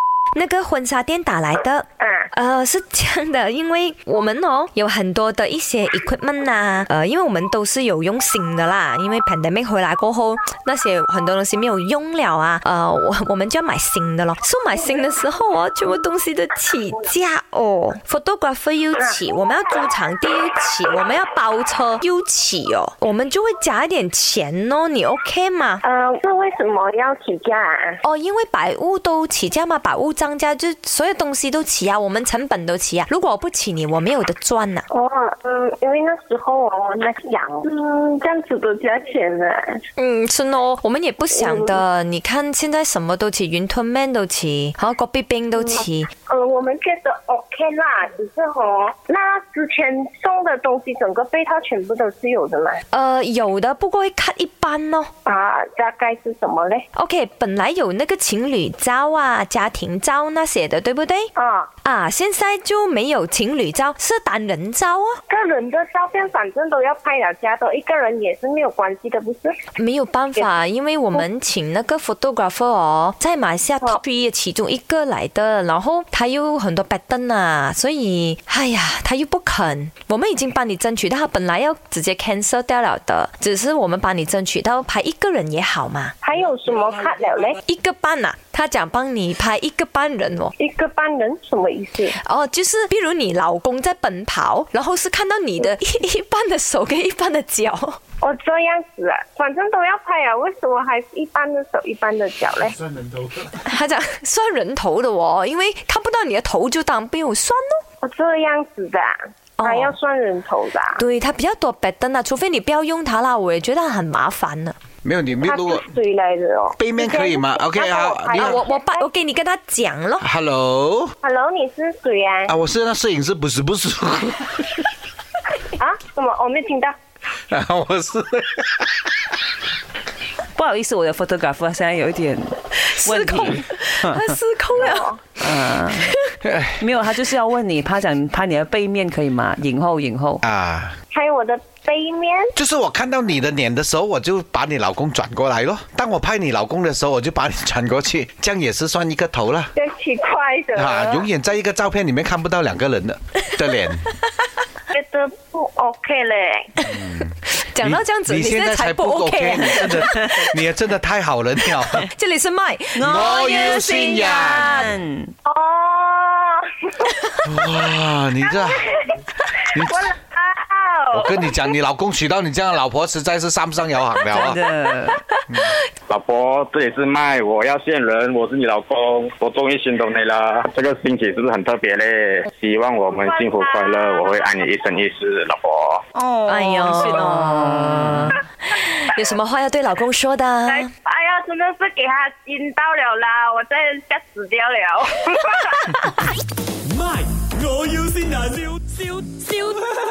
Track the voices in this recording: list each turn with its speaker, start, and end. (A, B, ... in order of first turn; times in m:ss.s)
0:00.3-0:25.8 A
0:02.0-0:02.3 B
0:25.8-0:28.0 B
0:28.0-0:34.9 A
0:34.9-0:39.8 B
0:40.0-0:46.1 A
0:41.4-0:41.8 B
0:45.6-0:52.8 B
0:52.9-0:55.1 A
0:55.2-0:56.9 B
0:57.0-1:01.3 A
1:01.4-1:01.7 B
1:01.8-1:05.2 A
1:05.3-1:09.6 B
1:09.8-1:26.2 A
1:26.2-1:27.6 B
1:27.6-1:30.5 A
1:30.6-1:32.2 B
1:32.2-1:38.0 A
1:38.2-1:42.8 B
1:43.6-1:47.8 A
1:48.0-1:51.0 B
1:49.6-1:49.9 A
1:51.0-1:54.8 A
1:55.0-1:55.9 C
1:55.4-1:59.1 B
1:56.8-1:58.6 C
1:58.3-2:00.3 A
2:00.2-2:01.2 C
2:01.2-2:02.5 B
2:02.5-2:04.8 C
2:05.8-2:07.0 B
2:07.5-2:09.0 C
2:10.6-2:14.3 D
2:12.7-2:16.3 A
2:14.8-2:15.2 B
2:15.4-2:16.1 D
2:16.4-2:16.8 C
2:16.8-2:20.4 D
2:20.4-2:21.0 C
2:21.1-2:22.5 B
2:22.6-2:29.7 C
2:29.8-2:31.3 B
2:30.8-2:34.1 C
2:34.9-2:36.7 B
2:36.8-2:40.5 A
2:36.9-2:42.1 C
2:42.0-2:44.9 A
2:42.9-2:45.3 D
2:43.0-2:44.9 C
2:45.4-2:47.1 B
2:47.4-2:48.9 C
2:48.6-2:49.0 B
2:49.6-2:51.7 B
2:49.7-2:50.1 C
2:51.1-2:54.6 C
2:54.3-2:55.2 D
2:55.3-2:55.8 A
2:55.5-2:55.8 C
2:56.1-3:06.0 E
3:03.1-3:04.7 B
3:06.1-3:08.4 D
3:06.5-3:10.9 A
3:10.7-3:16.0 B
3:16.8-3:19.8 F